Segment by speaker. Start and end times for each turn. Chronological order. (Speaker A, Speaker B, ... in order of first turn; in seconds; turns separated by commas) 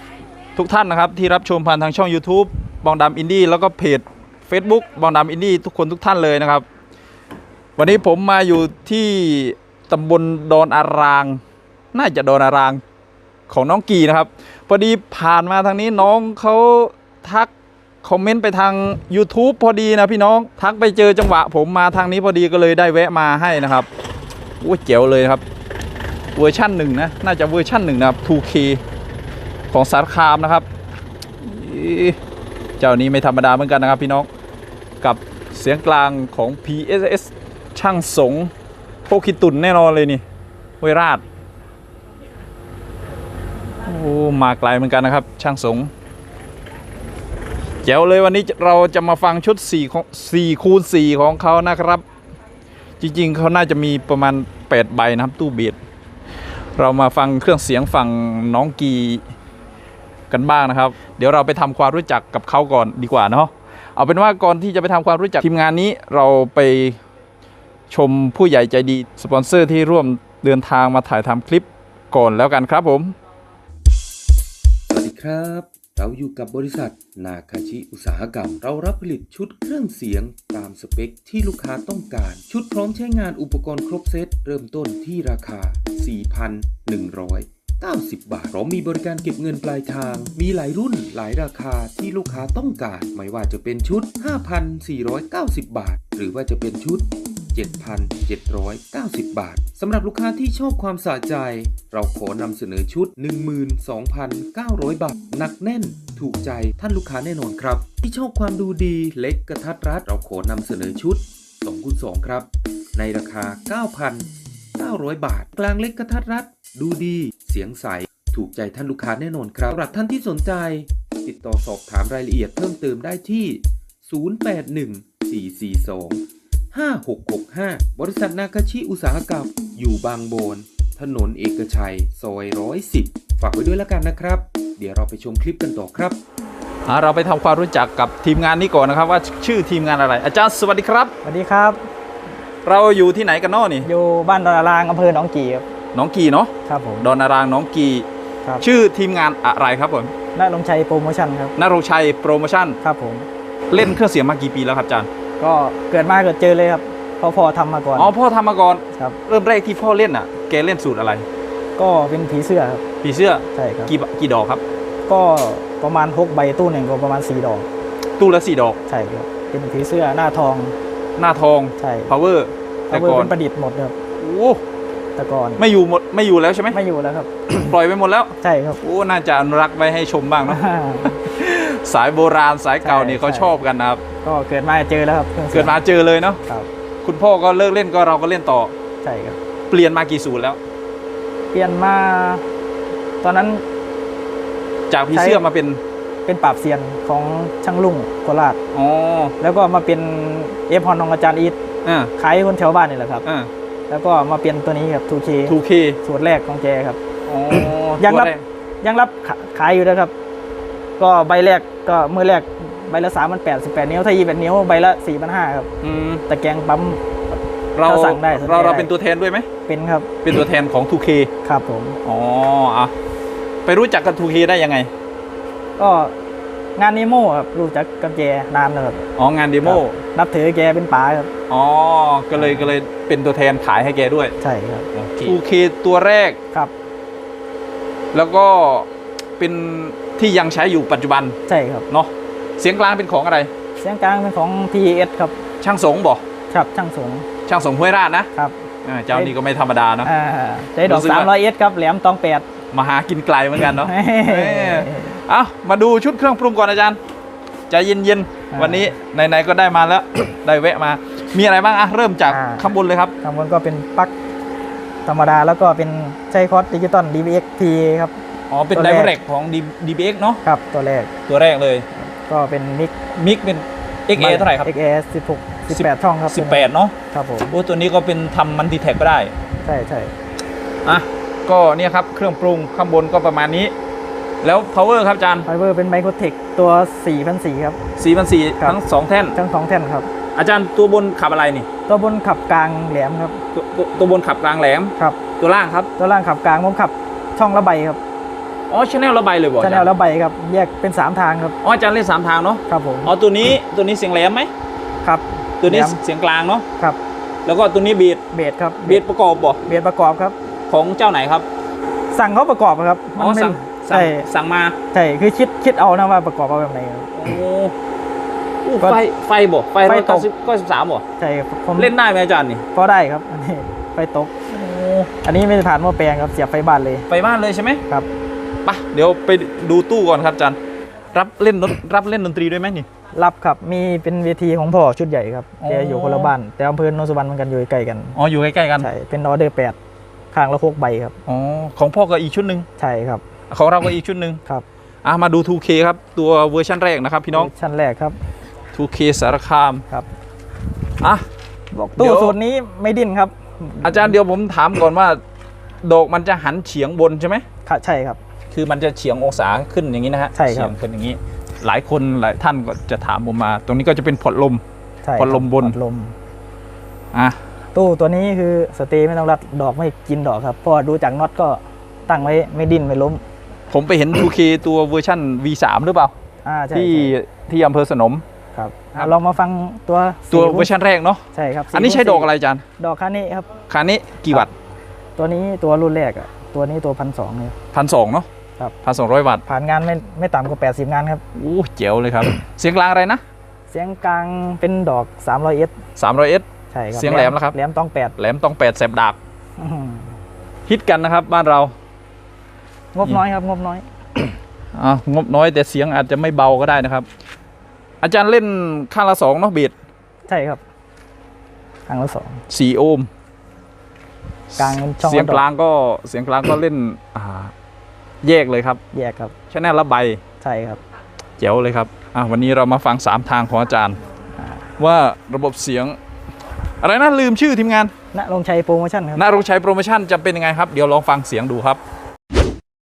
Speaker A: 0.6-6.7, Speaker A: 7.8-11.4, Speaker A: 11.9-12.8, Speaker A: 13.5-17.5, Speaker A: 18.0-23.9, Speaker A: 24.6-25.4, Speaker A: 26.4-28.8, Speaker A: 29.7-30.7, Speaker A: 31.4-32.2, Speaker A: 32.8-34.3, Speaker A: 35.0-38.5, Speaker A: 39.1-40.2, Speaker A: 40.8-41.2, Speaker A: 43.9-45.9, Speaker A: 47.8-52.0, Speaker A: 53.0-55.8, Speaker A: 56.8-59.2, Speaker A: 60.3-67.0, Speaker A: 67.9-73.2, Speaker B: 74.9-136.2, Speaker A: 136.9-141.1, Speaker C: 141.2-141.8, Speaker A: 142.6-143.9, Speaker C: 143.8-145.7, Speaker A: 145.9-148.1, Speaker C: 146.7-147.1, Speaker A: 148.6-150.1, Speaker C: 150.3-151.6, Speaker A: 151.6-152.8, Speaker C: 152.8-153.3, Speaker A: 153.7-155.1, Speaker C: 155.4-158.1, Speaker A: 158.0-161.3, Speaker C: 161.8-162.8, Speaker A: 163.0-164.6, Speaker C: 163.6-163.9, Speaker C: 165.1-167.7, Speaker A: 168.2-168.8, Speaker C: 168.9-170.8, Speaker A: 171.2-173.3, Speaker C: 171.8-172.1, Speaker C: 172.9-174.0, Speaker A: 174.2-174.6, Speaker C: 175.2-175.7, Speaker A: 175.6-176.8, Speaker C: 176.7-177.7, Speaker A: 177.5-184.0, Speaker C: 178.4-178.8, Speaker C: 180.5-181.2, Speaker C: 182.8-183.6, Speaker C: 184.2-185.8, Speaker A: 185.5-186.4, Speaker A: 187.0-188.7, Speaker C: 189.0-189.4, Speaker A: 189.7-190.6, Speaker C: 191.5-192.4, Speaker C: 193.2-193.6, Speaker A: 194.9-195.8, Speaker C: 195.1-195.4, Speaker C: 196.2-198.6, Speaker A: 198.7-199.4, Speaker C: 199.4-201.6, Speaker A: 201.8-202.1, Speaker C: 202.2-203.3, Speaker A: 203.2-203.5, Speaker C: 203.9-207.0, Speaker A: 205.5-206.0, Speaker A: 207.3-208.4, Speaker C: 207.6-208.3, Speaker C: 208.8-210.1, Speaker C: 211.0-215.7, Speaker A: 215.8-216.2, Speaker C: 216.3-217.0, Speaker A: 217.8-219.5, Speaker C: 217.8-218.9, Speaker C: 219.7-220.1, Speaker A: 220.2-221.3, Speaker C: 221.4-222.0, Speaker A: 222.0-222.9, Speaker A: 223.7-224.9, Speaker C: 225.8-226.2, Speaker C: 226.8-229.1, Speaker A: 229.2-230.0, Speaker C: 229.6-231.3, Speaker A: 231.5-234.3, Speaker C: 232.3-232.7, Speaker C: 234.4-235.3, Speaker A: 235.0-236.4, Speaker A: 238.1-238.9, Speaker A: 239.4-241.4, Speaker C: 241.5-241.9, Speaker A: 241.9-243.5, Speaker C: 243.8-245.4, Speaker A: 245.6-246.2, Speaker C: 246.5-247.3, Speaker A: 247.5-248.3, Speaker A: 248.8-250.1, Speaker C: 250.0-252.5, Speaker A: 250.8-251.3, Speaker A: 252.7-257.0, Speaker C: 253.8-255.2, Speaker A: 257.7-263.1, Speaker C: 258.5-258.9, Speaker C: 262.3-264.1, Speaker C: 265.1-268.2, Speaker A: 268.5-270.4, Speaker C: 268.7-269.1, Speaker C: 270.4-271.1, Speaker A: 271.3-271.9, Speaker C: 272.0-272.9, Speaker A: 273.1-274.7, Speaker C: 274.2-277.5, Speaker A: 275.7-276.9, Speaker A: 277.5-279.3, Speaker C: 279.6-280.1, Speaker A: 280.9-283.7, Speaker A: 284.4-285.5, Speaker C: 285.5-287.8, Speaker A: 288.0-289.4, Speaker C: 289.4-290.1, Speaker A: 290.4-291.7, Speaker C: 291.9-293.4, Speaker A: 293.5-295.9, Speaker C: 296.0-298.0, Speaker A: 298.7-299.9, Speaker C: 299.6-301.6, Speaker A: 301.6-304.5, Speaker C: 302.7-303.1, Speaker C: 305.0-306.0, Speaker A: 305.6-306.7, Speaker A: 307.5-308.2, Speaker C: 308.3-309.0, Speaker A: 308.8-309.6, Speaker C: 309.6-310.4, Speaker A: 310.7-311.5, Speaker C: 312.1-314.3, Speaker A: 313.2-314.8, Speaker C: 314.9-317.1, Speaker A: 317.1-317.8, Speaker A: 318.6-321.1, Speaker C: 319.8-320.3, Speaker C: 321.2-321.9, Speaker A: 321.8-322.6, Speaker C: 322.7-324.4, Speaker A: 324.5-325.1, Speaker C: 325.2-327.1, Speaker A: 327.1-327.8, Speaker A: 328.6-330.6, Speaker A: 331.1-332.9, Speaker C: 333.1-338.2, Speaker A: 335.6-336.3, Speaker A: 338.1-338.9, Speaker C: 338.8-339.8, Speaker C: 340.3-341.1, Speaker A: 341.3-342.7, Speaker C: 342.8-343.2, Speaker A: 343.5-344.4, Speaker A: 345.0-347.5, Speaker C: 347.3-348.2, Speaker A: 348.7-349.8, Speaker A: 351.0-351.3, Speaker C: 351.7-354.1, Speaker A: 352.0-352.4, Speaker A: 353.8-355.2, Speaker A: 355.8-357.4, Speaker C: 357.6-358.2, Speaker A: 358.5-364.6, Speaker C: 360.3-360.8, Speaker C: 365.0-366.1, Speaker A: 365.2-365.8, Speaker A: 367.1-367.4, Speaker C: 367.7-373.2, Speaker A: 373.7-376.1, Speaker C: 376.4-377.1, Speaker A: 376.7-378.2, Speaker C: 378.5-380.7, Speaker A: 380.3-382.6, Speaker C: 381.3-383.5, Speaker A: 383.7-384.5, Speaker C: 385.2-387.6, Speaker A: 387.7-388.3, Speaker A: 388.8-389.4, Speaker C: 389.5-391.2, Speaker A: 391.4-393.2, Speaker C: 393.7-395.7, Speaker A: 396.0-397.6, Speaker C: 396.7-398.1, Speaker A: 398.2-399.2, Speaker C: 399.6-400.2, Speaker A: 400.7-401.7, Speaker C: 402.9-403.8, Speaker A: 404.7-407.1, Speaker A: 408.0-409.7, Speaker C: 410.3-410.6, Speaker C: 411.9-412.4, Speaker A: 412.5-413.1, Speaker A: 414.5-417.5, Speaker C: 414.6-415.4, Speaker A: 418.2-418.8, Speaker C: 418.9-419.3, Speaker A: 419.5-420.2, Speaker C: 420.4-420.8, Speaker A: 421.4-424.0, Speaker A: 424.8-426.0, Speaker A: 426.8-427.9, Speaker C: 428.1-429.3, Speaker A: 429.2-431.8